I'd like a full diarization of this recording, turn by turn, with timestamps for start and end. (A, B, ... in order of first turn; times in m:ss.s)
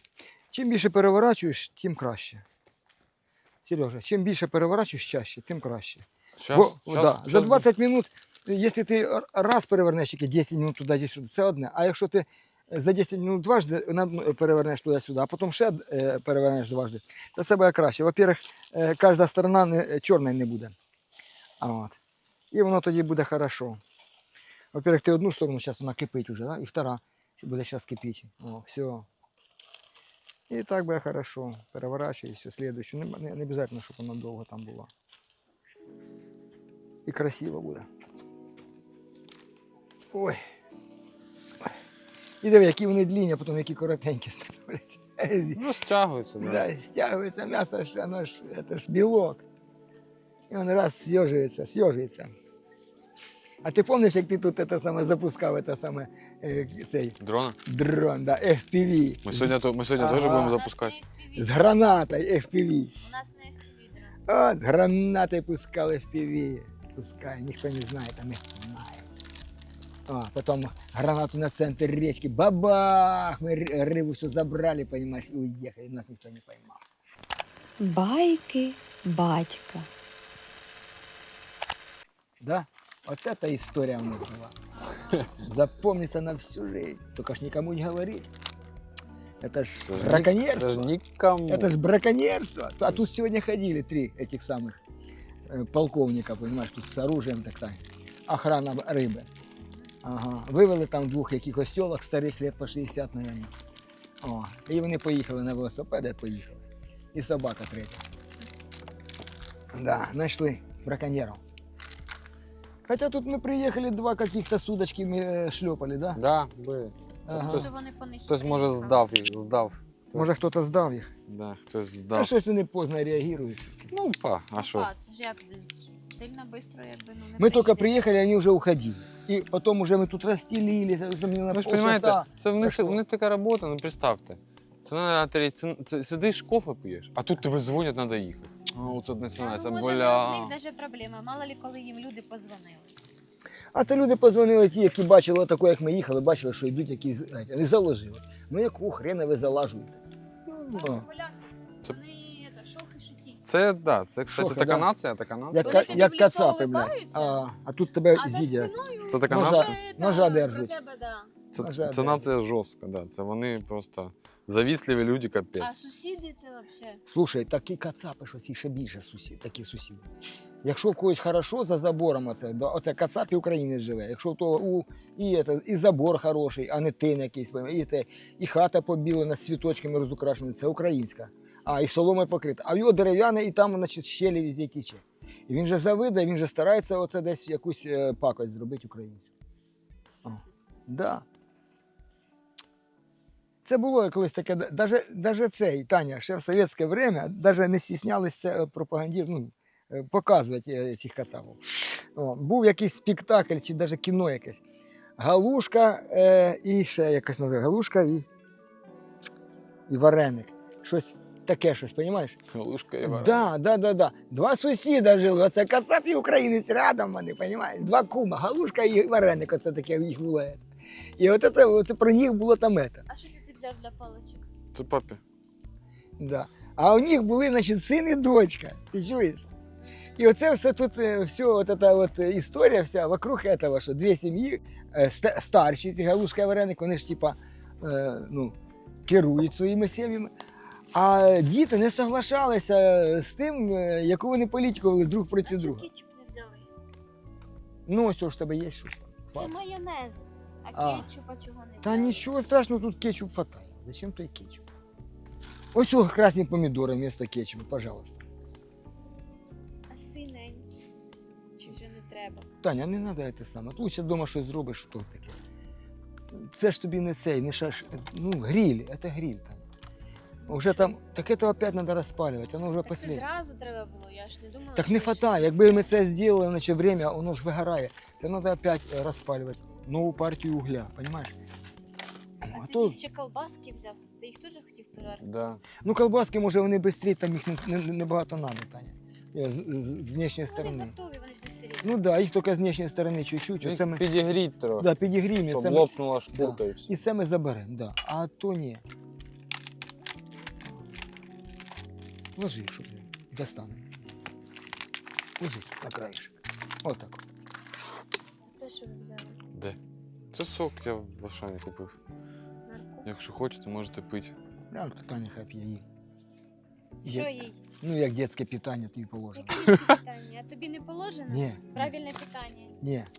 0:00.5-0:02.4 A
0:03.6-0:20.7 A
0:06.4-0:07.6 B
0:21.6-0:22.0 A
0:22.5-0:23.8 A
0:24.7-0:29.1 A
0:30.5-0:34.9 A
0:37.0-0:37.9 A
0:40.1-0:40.4 A
0:42.4-0:45.6 A
0:45.5-0:46.7 B
0:46.4-0:49.4 A
0:50.5-0:52.3 A
0:53.6-1:00.6 A
0:57.2-0:57.6 B
0:59.2-1:00.9 B
1:00.3-1:01.6 C
1:01.4-1:02.9 A
1:03.0-1:04.2 C
1:04.3-1:09.1 A
1:10.1-1:16.8 A
1:17.8-1:19.9 D
1:22.4-1:24.5 A
1:25.4-1:28.3 A
1:29.4-1:30.9 A
1:29.9-1:31.7 B
1:31.5-1:34.8 A
1:35.5-1:39.3 A
1:40.0-1:43.5 A
1:44.2-1:46.6 A
1:47.1-1:48.0 A
1:49.7-1:51.4 A
1:52.9-1:56.2 A
1:56.1-1:57.7 B
1:57.3-1:57.7 A
1:57.4-1:59.1 C
1:58.3-2:00.4 B
2:00.1-2:01.1 A
2:01.3-2:02.3 B
2:02.1-2:03.9 A
2:03.9-2:04.9 B
2:04.6-2:08.0 C
2:07.4-2:13.0 A
2:11.5-2:20.5 B
2:19.4-2:23.0 C
2:23.7-2:30.0 A
2:30.5-2:33.4 C
2:30.7-2:31.0 A
2:33.4-2:36.0 B
2:34.3-2:34.9 A
2:35.5-2:38.7 A
2:35.6-2:37.4 C
2:38.1-2:41.3 C
2:39.1-2:39.8 B
2:39.3-2:40.7 A
2:41.5-2:45.7 B
2:41.6-2:42.3 A
2:45.6-2:47.0 C
2:47.1-2:50.1 A
2:50.6-3:09.3 A
3:10.2-3:11.2 A
3:13.6-3:24.6 A
3:25.2-3:28.2 A
3:29.9-3:32.4 A
3:32.5-3:33.5 B
3:33.0-3:40.6 A
3:41.2-3:43.0 A
3:43.1-3:44.5 C
3:44.7-3:45.2 B
3:46.2-3:49.5 A
3:49.8-3:50.1 C
3:50.2-4:00.3 A
4:00.9-4:05.8 A
4:05.4-4:06.7 C
4:07.8-4:09.5 A
4:09.3-4:12.2 C
4:10.7-4:11.1 A
4:11.8-4:14.6 A
4:15.7-4:18.2 A
4:19.9-4:20.7 C
4:21.6-4:22.5 C
4:22.6-4:25.4 A
4:26.3-4:29.6 A
4:30.4-4:30.7 C
4:30.4-4:33.2 A
4:32.8-4:35.6 C
4:34.8-4:41.3 A
4:42.4-4:43.0 A
4:42.5-4:45.2 C
4:45.2-4:45.6 B
4:45.8-4:50.9 A
4:50.5-4:52.0 C
4:51.8-4:54.0 A
4:53.6-4:54.9 B
4:54.8-4:58.8 A
4:55.4-4:56.9 B
5:02.4-5:03.8 A
5:05.4-5:07.2 A
5:08.5-5:09.4 C
5:10.3-5:11.9 B
5:12.7-5:13.1 C
5:13.0-5:14.3 B
5:14.7-5:15.8 A
5:17.0-5:19.7 A
5:17.0-5:17.6 C
5:19.3-5:22.7 C
5:19.6-5:20.0 B
5:21.3-5:21.9 A
5:22.8-5:23.1 A